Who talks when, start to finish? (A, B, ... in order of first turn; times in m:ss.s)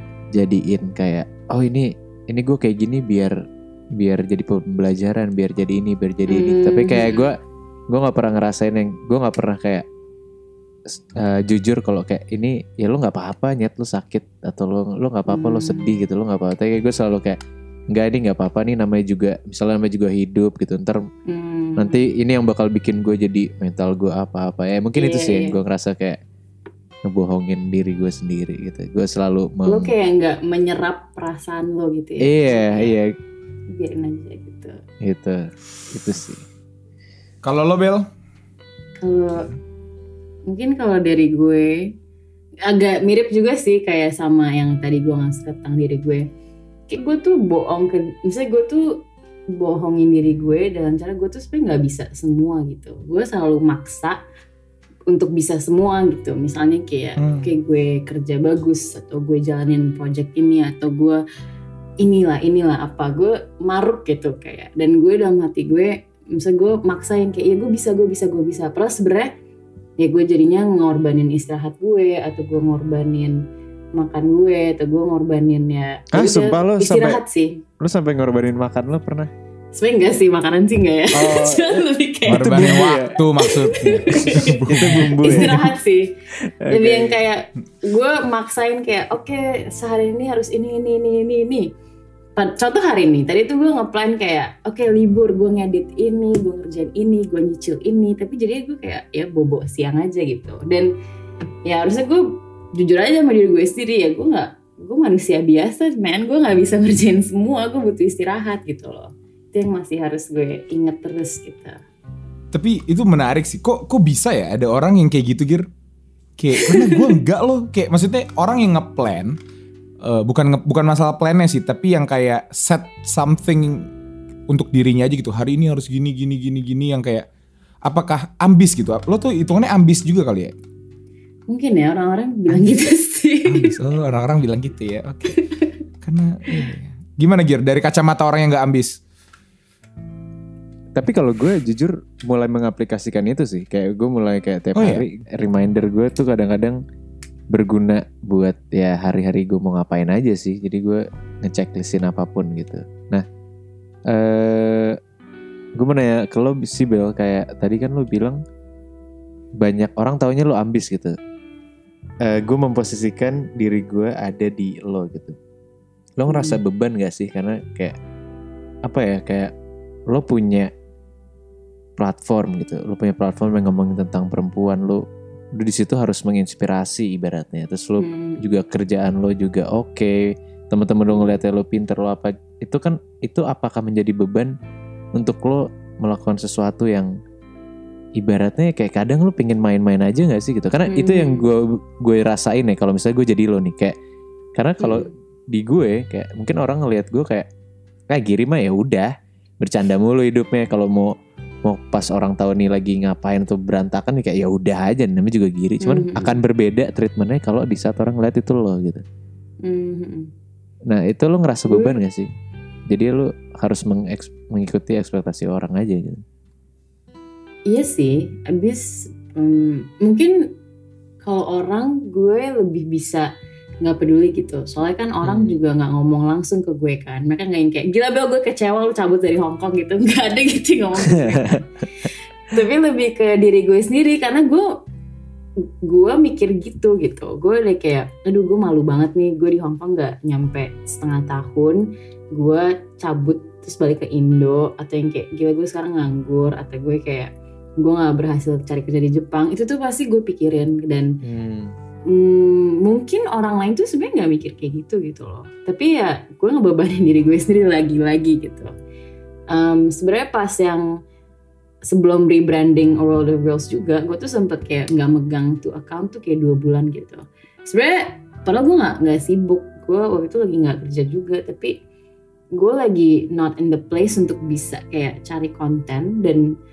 0:00.4-0:03.3 A
0:04.0-0:07.4 A
0:06.3-0:07.3 B
0:07.9-0:09.8 A
0:10.9-0:17.4 A
0:15.3-0:15.9 B
0:17.9-0:21.1 A
0:21.3-0:22.1 B
0:21.8-0:26.2 A
0:25.0-0:25.6 B
0:27.0-0:29.9 A
0:29.7-0:33.0 B
0:32.2-0:33.1 A
0:33.7-0:34.8 B
0:35.0-0:36.4 A
0:37.4-0:38.1 C
0:39.0-0:39.5 B
0:40.5-0:41.9 B
0:42.6-0:46.3 B
0:46.9-0:54.2 B
0:55.1-1:01.2 B
0:57.2-0:57.5 C
1:02.0-1:09.3 B
1:10.0-1:17.6 B
1:16.1-1:17.2 A
1:17.8-1:19.3 A
1:19.7-1:26.2 B
1:21.1-1:23.2 A
1:22.3-1:25.6 C
1:24.7-1:25.7 A
1:26.6-1:27.2 A
1:26.7-1:31.7 B
1:32.4-1:40.9 B
1:41.6-1:51.8 B
1:52.5-1:55.7 C
1:56.4-1:59.4 C
1:56.6-1:57.2 B
2:00.0-2:03.9 C
2:04.5-2:07.3 C
2:07.9-2:10.5 C
2:11.5-2:13.8 B
2:13.5-2:15.4 C
2:15.3-2:15.7 B
2:16.0-2:19.0 C
2:21.0-2:26.8 A
2:24.8-2:25.0 C
2:27.5-2:33.2 A
2:34.1-2:35.0 A
2:35.8-2:38.4 A
2:39.6-2:41.2 A
2:42.2-2:45.4 A
2:46.2-2:48.0 A
2:46.3-2:46.6 B
2:48.9-2:49.5 A
2:50.1-2:50.7 A
2:52.0-2:55.0 A
2:55.6-3:04.5 A
2:58.0-2:58.4 B
3:05.2-3:07.1 A
3:08.2-3:13.9 A
3:10.9-3:11.5 B
3:14.6-3:17.5 A
3:14.8-3:15.1 B
3:18.1-3:19.1 A
3:19.6-3:21.1 A
3:21.7-3:29.0 A
3:25.8-3:26.4 B
3:29.6-3:30.3 B
3:30.9-3:32.3 A
3:31.7-3:32.0 B
3:32.9-3:36.2 A
3:37.7-3:40.5 B
3:41.2-3:43.3 B
3:43.8-3:54.7 B
3:45.2-3:45.6 A
3:51.1-3:51.8 A
3:55.8-4:11.2 B
4:11.2-4:11.7 A
4:12.1-4:18.7 B
4:19.5-4:21.0 B
4:21.8-4:31.8 B
4:32.5-4:36.4 B